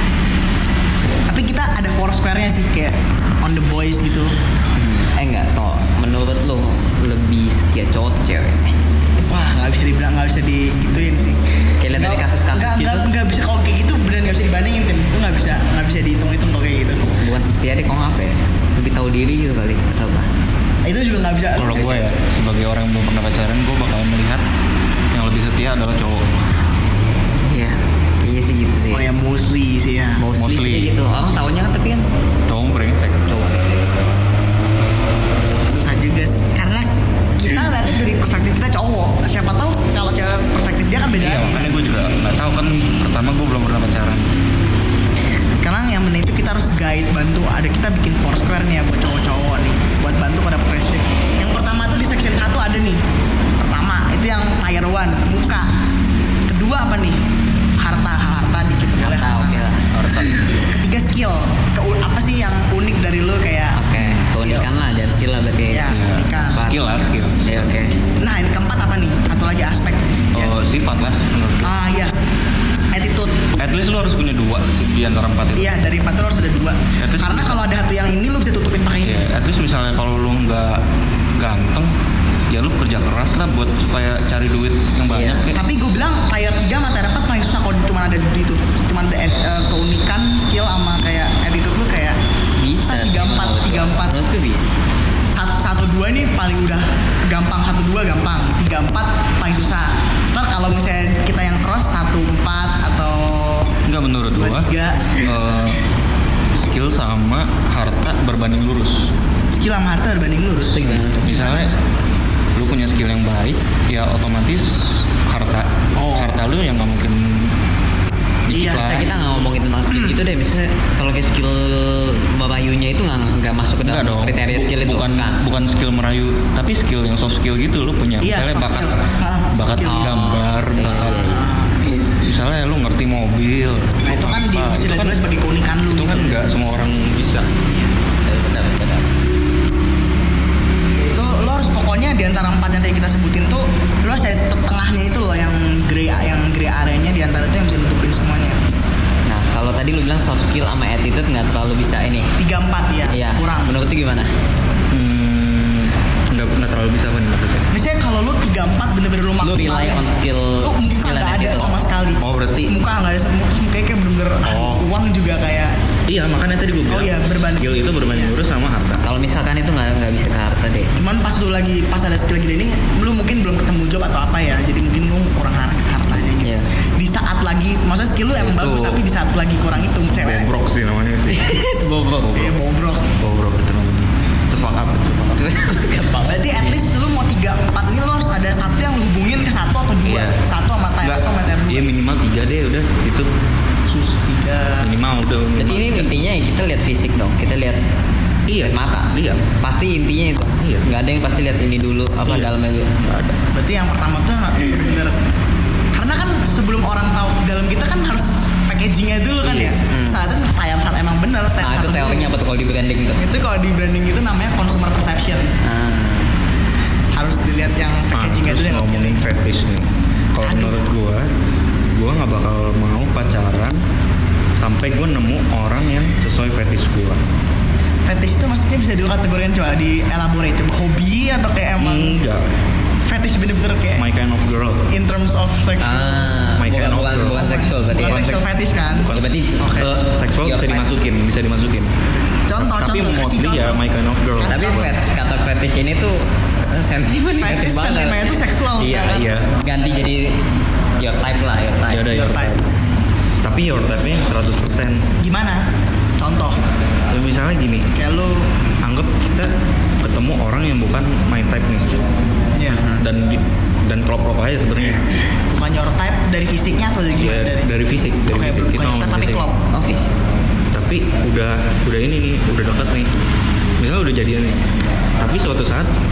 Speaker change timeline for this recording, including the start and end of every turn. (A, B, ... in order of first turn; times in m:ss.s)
0:01.3-0:04.4 A
0:04.8-0:08.8 B
0:09.2-0:11.4 A
0:11.8-0:13.1 B
0:11.9-0:17.0 A
0:17.2-0:20.3 B
0:20.8-0:22.0 A
0:21.6-0:24.4 C
0:21.7-0:22.0 B
0:25.1-0:26.3 C
0:27.5-0:29.1 B
0:28.9-0:30.2 A
0:30.2-0:32.1 B
0:30.4-0:31.0 C
0:32.5-0:33.3 C
0:33.3-0:33.9 B
0:35.6-0:42.0 A
0:41.2-0:44.2 C
0:45.6-0:53.0 A
0:53.6-0:55.7 A
0:56.5-0:57.2 A
0:57.8-0:59.7 A
0:59.0-1:00.6 B
1:00.2-1:04.7 A
1:03.8-1:05.9 B
1:05.7-1:10.5 A
1:05.9-1:07.5 C
1:06.5-1:06.8 B
1:07.4-1:08.0 B
1:10.3-1:11.7 C
1:11.6-1:12.2 A
1:12.9-1:13.5 A
1:13.6-1:15.7 C
1:15.6-1:19.2 A
1:17.0-1:17.6 C
1:19.0-1:20.8 C
1:21.4-1:21.9 C
1:22.5-1:25.7 C
1:25.1-1:25.5 B
1:25.5-1:32.2 A
1:32.6-1:34.7 B
1:32.7-1:34.1 A
1:35.3-1:43.8 A
1:43.9-1:45.8 C
1:44.4-1:45.4 A
1:46.5-1:49.1 C
1:49.5-1:51.7 A
1:50.7-1:51.6 B
1:50.8-1:51.7 C
1:52.6-1:57.6 C
1:56.0-1:56.4 A
1:58.5-1:59.1 C
1:58.5-2:00.2 A
1:58.6-2:05.5 B
2:03.8-2:15.2 C
2:08.2-2:10.2 A
2:09.7-2:11.4 B
2:10.9-2:12.2 A
2:14.0-2:16.4 A
2:15.9-2:17.5 C
2:17.7-2:17.9 A
2:18.2-2:19.1 B
2:21.0-2:28.6 A
2:29.3-2:32.3 B
2:32.4-2:33.7 A
2:33.1-2:34.3 B
2:34.9-2:37.7 C
2:37.7-2:45.8 A
2:39.4-2:41.7 B
2:42.2-2:42.8 C
2:44.4-2:44.8 C
2:46.1-2:49.0 C
2:46.9-2:48.3 A
2:49.0-2:50.9 B
2:51.0-3:00.5 A
2:56.4-2:56.7 B
2:58.3-2:59.0 C
3:00.1-3:01.6 C
3:01.3-3:02.5 B
3:02.2-3:02.6 C
3:02.3-3:03.2 A
3:03.2-3:05.6 C
3:05.4-3:06.8 B
3:06.3-3:11.9 A
3:10.0-3:10.4 C
3:11.0-3:13.3 C
3:13.9-3:14.9 A
3:14.8-3:16.1 C
3:15.6-3:17.8 B
3:18.5-3:19.4 C
3:18.6-3:22.9 B
3:20.6-3:20.9 C
3:22.2-3:23.4 C
3:23.5-3:25.2 A
3:25.9-3:32.3 A
3:29.4-3:29.8 C
3:29.9-3:30.2 B
3:31.6-3:33.2 B
3:33.2-3:35.5 A
3:35.6-3:36.3 B
3:37.2-3:39.2 A
3:38.1-3:41.3 C
3:40.4-3:40.8 A
3:41.8-3:43.8 C
3:44.6-3:47.2 C
3:48.1-3:52.2 A
3:51.8-3:52.4 C
3:53.0-3:54.1 A
3:54.0-3:54.9 C
3:54.9-3:56.3 A
3:55.8-3:58.3 B
3:56.6-4:01.9 C
3:57.4-3:59.9 A
3:59.1-4:00.9 B
4:02.3-4:03.8 A
4:02.6-4:04.9 C
4:04.4-4:05.0 A
4:04.5-4:08.4 B
4:07.4-4:09.4 A
4:08.8-4:09.5 C
4:09.6-4:10.4 B
4:11.0-4:12.1 B
4:11.9-4:12.7 C
4:12.1-4:12.5 A
4:13.4-4:15.1 C
4:15.2-4:15.6 A
4:16.2-4:16.6 A
4:17.1-4:17.9 C
4:18.0-4:18.6 A
4:18.8-4:22.1 C
4:22.6-4:22.8 A
4:22.7-4:23.0 B
4:22.8-4:25.2 C
4:25.5-4:27.7 A
4:27.1-4:29.5 C
4:28.3-4:29.6 A
4:29.7-4:30.1 B
4:30.7-4:33.1 C
4:33.8-4:35.9 C